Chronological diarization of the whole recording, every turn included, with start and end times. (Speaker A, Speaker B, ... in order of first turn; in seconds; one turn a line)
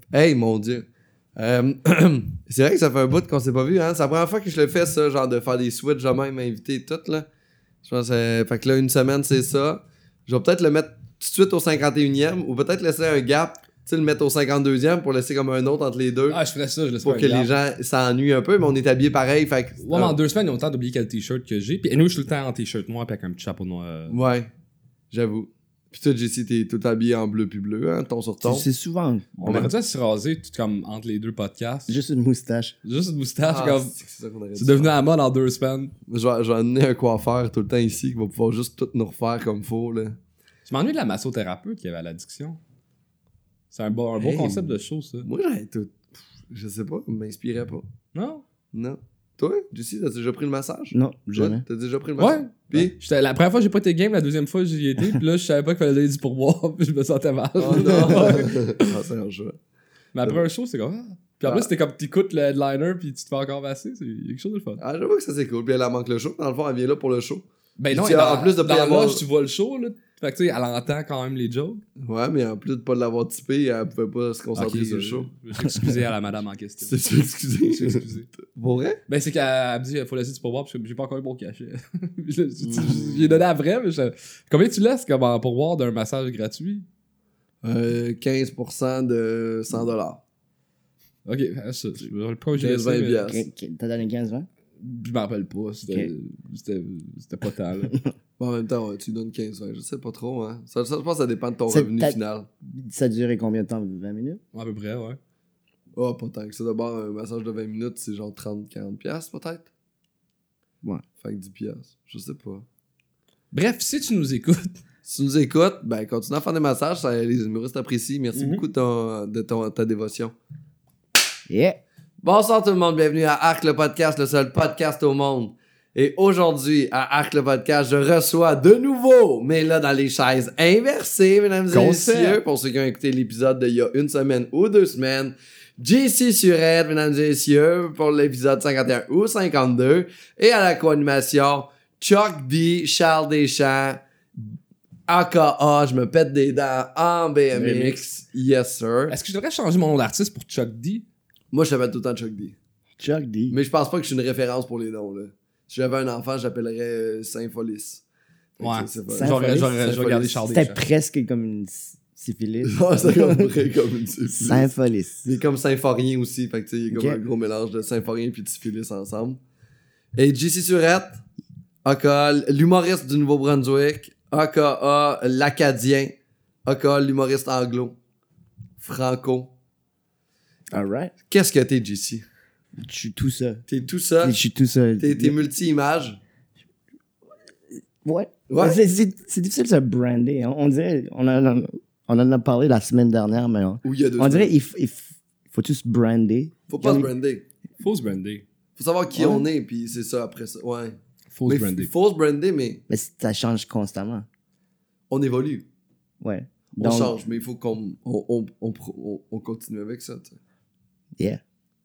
Speaker A: 0.1-7.2
Speaker A: 7.8-16.4
Speaker B: 16.3-17.5
Speaker A: 17.0-20.2
Speaker B: 19.8-24.1
Speaker A: 24.1-24.5
Speaker A: 25.1-28.7
Speaker C: 28.4-29.6
Speaker A: 29.4-29.7
Speaker B: 29.4-32.0
Speaker C: 31.9-32.7
Speaker B: 32.8-33.9
Speaker A: 33.4-34.9
Speaker B: 34.6-35.9
Speaker A: 36.1-40.2
Speaker B: 40.6-42.6
Speaker B: 43.7-45.2
Speaker A: 44.2-47.9
Speaker B: 48.1-48.4
Speaker A: 48.7-52.9
Speaker C: 50.9-51.6
Speaker B: 52.2-58.9
Speaker A: 57.6-59.6
Speaker C: 57.8-58.2
Speaker B: 60.1-64.8
Speaker A: 61.4-61.7
Speaker A: 64.8-69.2
Speaker B: 67.8-71.8
Speaker A: 72.0-75.3
Speaker B: 74.5-77.0
Speaker C: 75.6-75.9
Speaker A: 76.8-79.0
Speaker B: 77.6-78.3
Speaker B: 79.1-86.8
Speaker A: 82.6-83.4
Speaker A: 87.6-90.2
Speaker B: 91.2-93.3
Speaker A: 92.6-93.5
Speaker C: 93.3-94.5
Speaker B: 94.8-98.0
Speaker A: 98.4-102.5
Speaker C: 101.7-104.4
Speaker B: 104.5-105.2
Speaker A: 106.0-109.7
Speaker A: 111.2-112.7
Speaker B: 113.5-114.8
Speaker A: 115.0-120.3
Speaker B: 118.3-118.6
Speaker C: 121.5-121.8
Speaker A: 122.2-144.0
Speaker B: 131.7-132.4
Speaker A: 145.1-149.1
Speaker B: 147.5-148.0
Speaker B: 149.1-151.0
Speaker A: 151.5-152.6
Speaker C: 153.0-153.6
Speaker A: 153.5-158.0
Speaker A: 158.6-160.4
Speaker B: 158.6-160.8
Speaker C: 159.1-159.8
Speaker C: 160.5-163.5
Speaker A: 162.6-164.7
Speaker C: 164.3-165.2
Speaker A: 165.2-169.4
Speaker C: 166.9-167.2
Speaker A: 170.1-171.2
Speaker A: 171.8-176.1
Speaker A: 176.7-178.0
Speaker A: 178.8-179.5
Speaker C: 180.7-181.1
Speaker A: 181.3-182.2
Speaker C: 182.8-183.6
Speaker A: 183.7-184.4
Speaker C: 184.2-185.4
Speaker A: 185.0-186.2
Speaker C: 188.0-197.1
Speaker A: 188.5-188.8
Speaker A: 193.8-194.5
Speaker A: 196.7-197.4
Speaker B: 197.8-198.4
Speaker A: 198.8-202.8
Speaker C: 199.1-199.5
Speaker B: 201.3-201.9
Speaker C: 202.9-204.3
Speaker A: 205.1-205.6
Speaker C: 206.2-207.2
Speaker A: 206.7-210.4